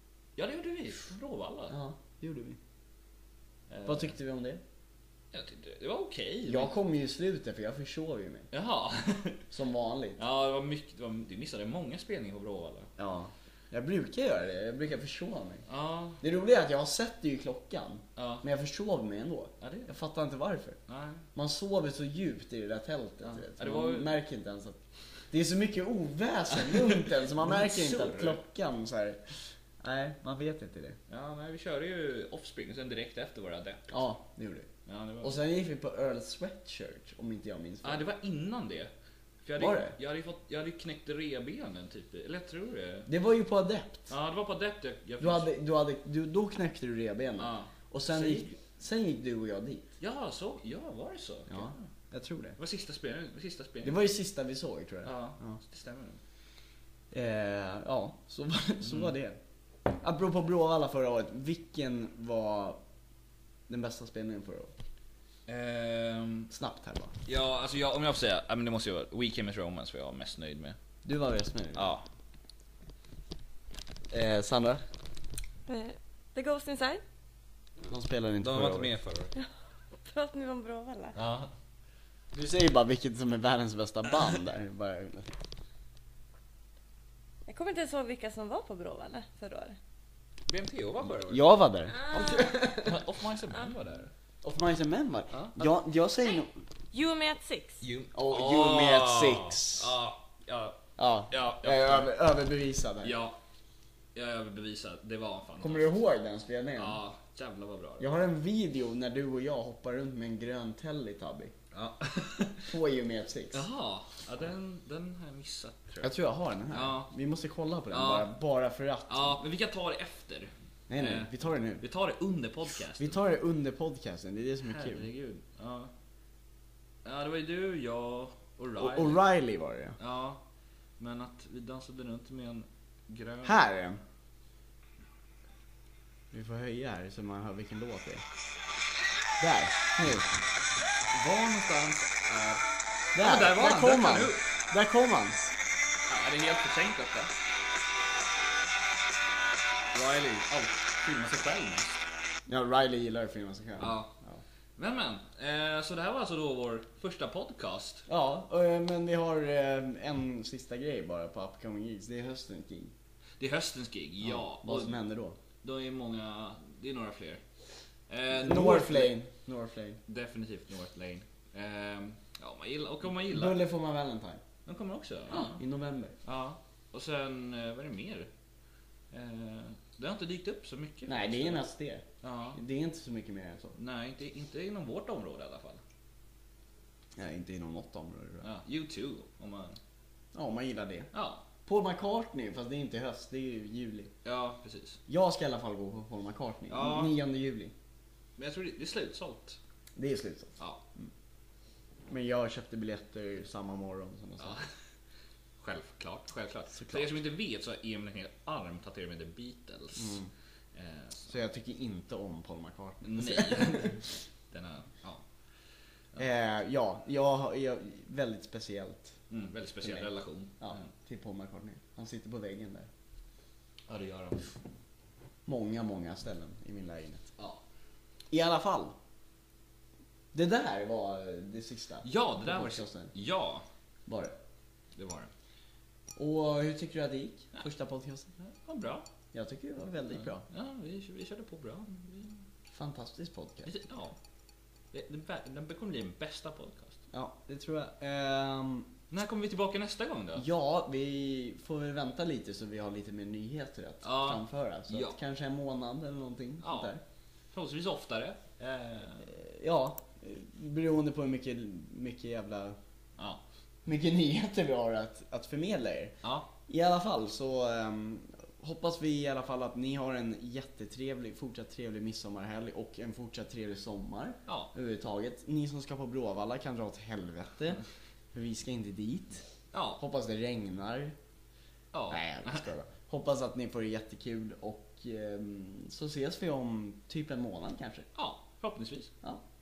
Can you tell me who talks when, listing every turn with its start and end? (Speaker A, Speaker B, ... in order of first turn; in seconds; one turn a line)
Speaker A: 0.3-1.7
Speaker B: 1.7-2.6
Speaker A: 3.7-4.1
Speaker B: 3.8-4.6
Speaker A: 5.3-6.8
Speaker B: 6.5-8.5
Speaker A: 8.5-9.4
Speaker B: 9.5-10.2
Speaker A: 10.2-12.9
Speaker B: 13.0-15.6
Speaker A: 15.7-16.2
Speaker B: 16.2-20.8
Speaker A: 18.1-18.4
Speaker A: 19.6-19.9
Speaker A: 20.9-21.2
Speaker B: 21.3-24.8
Speaker A: 23.2-24.1
Speaker B: 25.3-31.0
Speaker A: 26.5-28.4
Speaker A: 31.1-33.9
Speaker B: 33.9-34.7
Speaker A: 34.9-35.4
Speaker B: 35.2-38.1
Speaker A: 37.8-38.9
Speaker A: 39.4-43.1
Speaker B: 39.5-40.0
Speaker B: 43.1-44.1
Speaker A: 44.1-45.5
Speaker B: 45.2-49.9
Speaker A: 47.4-48.5
Speaker A: 50.0-51.8
Speaker B: 51.5-52.6
Speaker A: 52.6-54.0
Speaker B: 53.8-55.6
Speaker A: 55.0-56.2
Speaker B: 57.1-62.8
Speaker A: 58.8-59.1
Speaker B: 63.7-64.7
Speaker A: 65.5-66.5
Speaker B: 66.5-67.1
Speaker A: 67.2-70.8
Speaker B: 71.0-71.9
Speaker A: 71.7-72.0
Speaker B: 74.1-74.8
Speaker C: 75.7-77.0
Speaker B: 77.9-78.9
Speaker A: 78.4-79.3
Speaker C: 80.0-81.2
Speaker A: 81.1-81.5
Speaker B: 82.3-85.3
Speaker C: 87.5-89.8
Speaker A: 90.5-91.5
Speaker B: 91.2-93.0
Speaker C: 92.0-92.5
Speaker A: 92.1-94.1
Speaker B: 94.4-96.6
Speaker A: 95.3-95.6
Speaker C: 96.9-97.8
Speaker A: 97.8-102.1
Speaker B: 98.1-99.9
Speaker B: 101.0-103.2
Speaker A: 103.0-103.4
Speaker A: 104.1-106.0
Speaker B: 105.6-107.0
Speaker A: 106.8-108.1
Speaker B: 108.0-111.5
Speaker A: 111.7-112.7
Speaker B: 112.6-113.7
Speaker A: 113.5-116.1
Speaker B: 116.0-119.4
Speaker A: 116.7-117.1
Speaker A: 117.9-118.3
Speaker A: 119.1-123.2
Speaker B: 120.9-121.8
Speaker B: 123.0-125.1
Speaker A: 124.6-125.9
Speaker A: 127.0-129.2
Speaker B: 128.8-130.0
Speaker A: 130.0-130.4
Speaker A: 131.0-133.6
Speaker B: 133.4-134.0
Speaker B: 136.3-138.2
Speaker B: 139.4-140.3
Speaker A: 141.1-142.6
Speaker B: 143.1-145.5
Speaker A: 143.2-144.5
Speaker A: 146.1-147.3
Speaker A: 149.9-152.0
Speaker B: 152.5-154.4
Speaker A: 153.8-154.1
Speaker A: 154.8-158.0
Speaker B: 158.1-162.9
Speaker A: 163.4-165.0
Speaker B: 164.2-165.4
Speaker A: 165.6-167.4
Speaker A: 168.1-169.2
Speaker B: 168.3-170.0
Speaker A: 170.1-173.6
Speaker B: 173.1-174.4
Speaker A: 174.6-175.6
Speaker B: 175.3-176.2
Speaker A: 176.2-178.3
Speaker A: 179.1-181.6
Speaker B: 181.1-183.8
Speaker A: 182.2-182.6
Speaker A: 183.8-185.8
Speaker B: 187.2-188.5
Speaker A: 188.4-189.8
Speaker B: 190.3-191.1
Speaker A: 191.1-191.4
Speaker B: 191.6-194.1
Speaker A: 194.2-195.0
Speaker B: 195.1-197.7
Speaker A: 196.7-197.2
Speaker A: 198.4-199.6
Speaker B: 199.9-201.1
Speaker A: 200.6-200.8
Speaker B: 202.1-204.6
Speaker A: 204.4-204.7
Speaker A: 205.6-210.2
Speaker B: 206.7-207.2
Speaker B: 209.9-210.3
Speaker A: 210.7-211.3
Speaker B: 211.3-214.0
Speaker A: 213.0-215.2
Speaker B: 216.2-219.2
Speaker A: 219.3-220.9
Speaker B: 220.6-222.9
Speaker A: 223.9-224.5
Speaker B: 225.4-227.3
Speaker A: 227.4-227.6
Speaker B: 228.3-228.9
Speaker B: 230.3-233.1
Speaker A: 232.0-233.7
Speaker B: 234.1-234.3
Speaker A: 234.9-235.3
Speaker B: 236.2-238.3
Speaker A: 238.4-239.1
Speaker B: 239.3-240.4
Speaker A: 240.2-242.4
Speaker B: 242.7-243.7
Speaker A: 243.6-244.2
Speaker A: 244.9-247.0
Speaker B: 247.1-248.9
Speaker A: 249.1-250.4
Speaker B: 250.3-257.0
Speaker A: 254.0-255.2
Speaker A: 256.6-256.9
Speaker A: 257.5-259.3
Speaker B: 259.3-262.8
Speaker A: 263.2-263.4
Speaker B: 263.8-266.1
Speaker A: 266.2-266.5
Speaker B: 266.7-277.8
Speaker A: 274.4-274.7
Speaker B: 278.3-279.4
Speaker A: 279.7-280.0
Speaker B: 280.0-281.1
Speaker A: 281.9-282.6
Speaker B: 282.1-288.1
Speaker A: 288.1-289.1